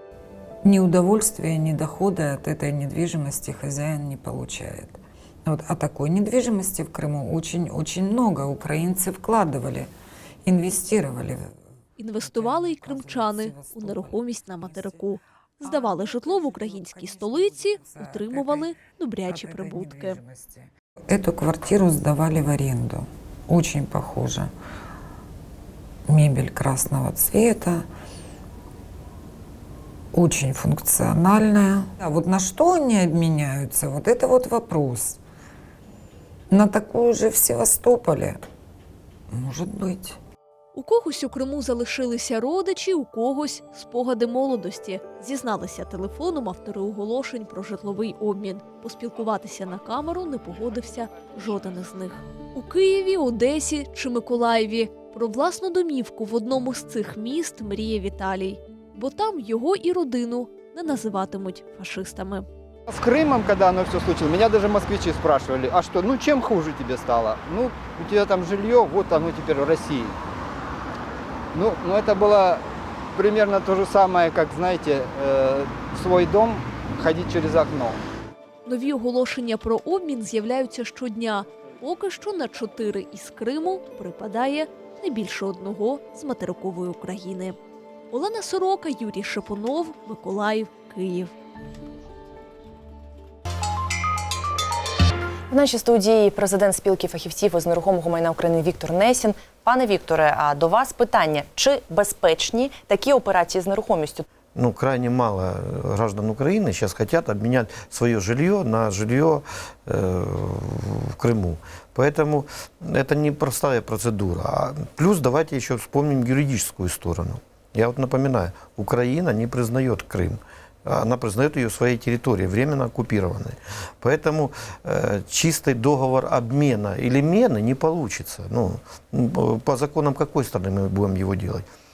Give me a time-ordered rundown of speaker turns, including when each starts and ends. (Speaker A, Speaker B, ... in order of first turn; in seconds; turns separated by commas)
Speaker A: 0.7-9.9, Speaker A: 10.4-11.6, Speaker B: 12.0-20.2, Speaker A: 12.2-24.5, Speaker A: 26.1-27.9, Speaker A: 30.1-35.2, Speaker A: 36.5-38.4, Speaker A: 39.3-40.2, Speaker B: 40.7-62.5, Speaker C: 62.9-70.2, Speaker C: 71.5-72.6, Speaker C: 73.2-78.0, Speaker B: 78.7-87.6, Speaker B: 88.1-91.3, Speaker D: 95.5-104.2, Speaker E: 104.5-131.7